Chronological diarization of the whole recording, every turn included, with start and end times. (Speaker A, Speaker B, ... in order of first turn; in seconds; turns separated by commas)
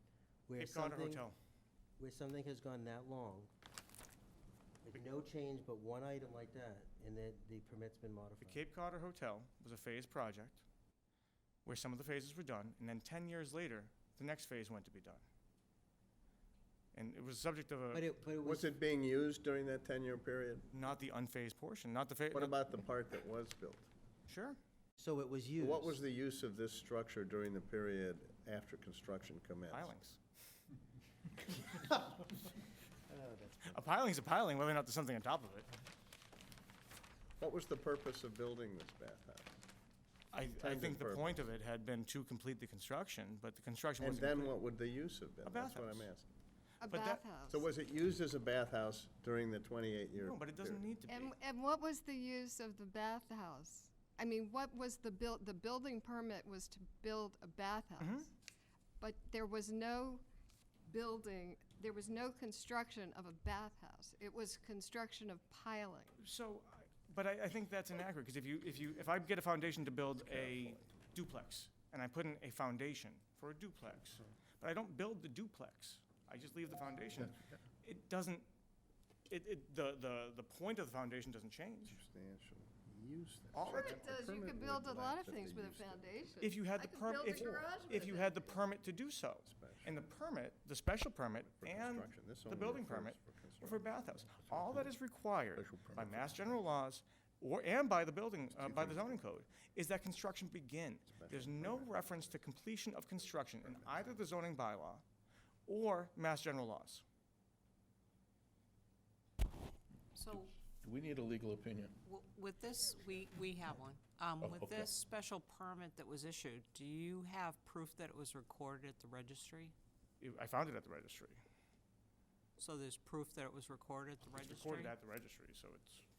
Speaker A: 0.5-1.2, Speaker B: 0.6-1.3, Speaker A: 2.0-3.5, Speaker A: 4.8-8.6, Speaker B: 8.4-10.6, Speaker B: 11.7-15.2, Speaker B: 16.9-18.0, Speaker A: 17.9-18.8, Speaker C: 18.4-20.7, Speaker B: 20.7-22.6, Speaker C: 22.3-23.9, Speaker B: 24.3-24.6, Speaker A: 25.0-26.0, Speaker C: 25.6-29.9, Speaker B: 29.7-30.2, Speaker A: 33.1-33.8, Speaker B: 33.6-35.7, Speaker C: 37.4-39.6, Speaker B: 40.3-44.5, Speaker C: 40.6-41.5, Speaker C: 44.0-46.3, Speaker B: 45.4-46.1, Speaker D: 46.8-47.6, Speaker B: 46.8-47.3, Speaker C: 47.5-50.9, Speaker B: 50.2-51.3, Speaker D: 51.1-58.3, Speaker B: 58.0-58.3, Speaker D: 59.0-60.2, Speaker D: 60.9-66.2, Speaker B: 66.2-78.5, Speaker C: 70.3-70.8, Speaker B: 79.3-82.0, Speaker C: 81.9-86.3, Speaker B: 83.5-84.1, Speaker D: 83.6-88.5, Speaker B: 86.4-105.0, Speaker C: 89.4-90.0, Speaker C: 91.4-94.6, Speaker E: 94.6-94.9, Speaker E: 95.5-96.5, Speaker C: 98.7-99.2, Speaker C: 101.1-102.5, Speaker C: 103.1-104.3, Speaker B: 105.7-107.0, Speaker F: 110.1-110.5, Speaker E: 110.3-111.9, Speaker F: 112.0-119.7, Speaker E: 114.4-115.0, Speaker B: 120.2-121.4, Speaker F: 122.6-124.9, Speaker B: 124.3-126.0